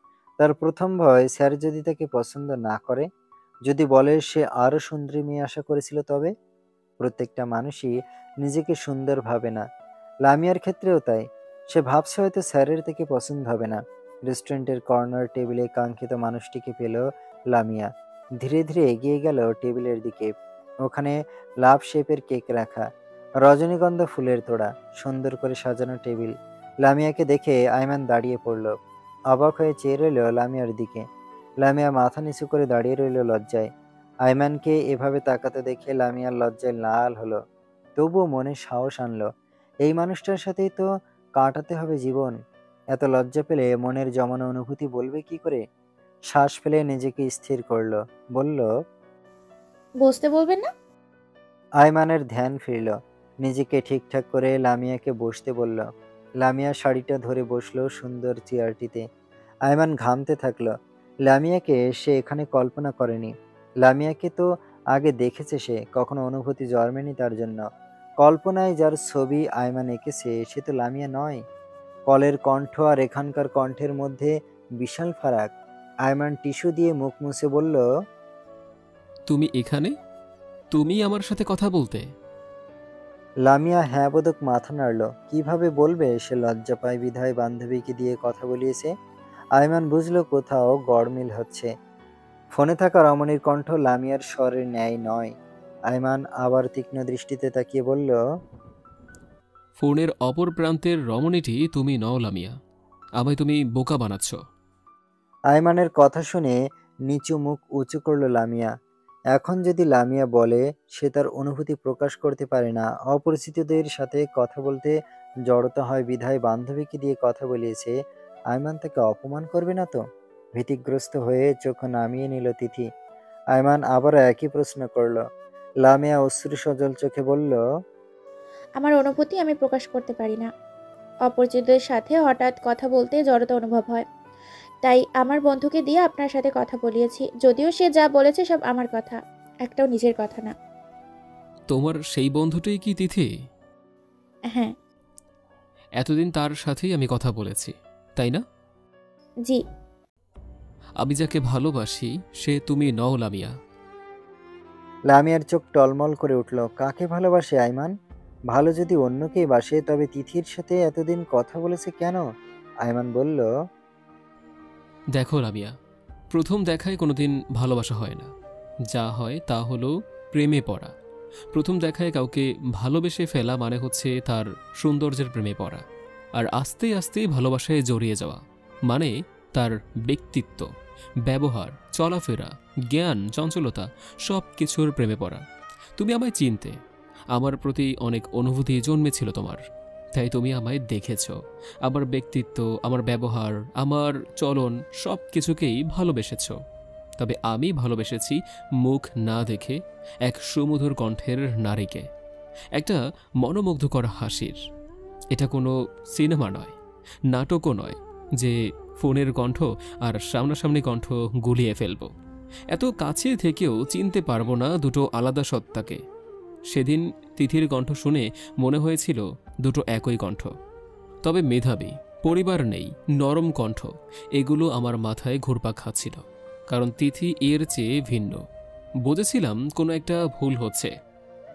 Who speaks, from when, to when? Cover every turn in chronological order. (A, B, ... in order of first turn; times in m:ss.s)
0:00.4-0:03.1 A
0:03.7-0:06.3 A
0:07.0-0:09.6 A
0:10.2-0:17.9 A
0:18.4-0:20.3 A
0:20.8-0:22.9 A
0:23.4-0:28.8 A
0:29.3-0:31.0 A
0:31.6-0:33.7 A
0:34.2-0:37.4 A
0:38.0-0:39.3 A
0:39.8-0:40.8 A
0:41.4-0:42.4 A
0:42.9-0:45.6 A
0:46.3-0:48.7 A
0:50.0-0:50.7 B
0:51.8-0:55.8 A
0:56.4-0:59.0 A
0:59.7-1:00.7 A
1:01.3-1:07.6 A
1:08.2-1:11.4 A
1:12.1-1:15.5 A
1:16.0-1:17.8 A
1:19.3-1:19.9 C
1:20.7-1:22.0 C
1:23.4-1:28.9 A
1:29.6-1:31.7 A
1:32.5-1:35.3 A
1:35.9-1:38.2 A
1:39.8-1:42.5 C
1:43.2-1:44.4 C
1:45.5-1:46.6 A
1:47.1-1:48.7 A
1:49.3-1:55.0 A
1:55.5-1:58.0 A
1:58.5-2:00.0 A
2:00.6-2:02.9 A
2:03.5-2:05.2 A
2:05.8-2:07.6 A
2:08.8-2:10.5 B
2:11.3-2:14.0 B
2:14.8-2:20.5 B
2:21.7-2:23.3 C
2:26.0-2:28.4 C
2:31.0-2:33.5 C
2:35.1-2:37.9 A
2:38.5-2:42.2 A
2:42.8-2:43.4 A
2:45.1-2:45.7 C
2:46.3-2:48.3 C
2:48.9-2:50.9 C
2:51.5-2:55.8 C
2:56.4-3:00.7 C
3:01.2-3:05.4 C
3:06.0-3:06.8 C
3:07.3-3:09.6 C
3:10.1-3:16.6 C
3:17.2-3:22.1 C
3:22.8-3:24.6 C
3:25.3-3:26.7 C
3:27.3-3:32.1 C
3:32.7-3:36.0 C
3:36.7-3:40.5 C
3:41.2-3:48.4 C
3:49.0-3:50.9 C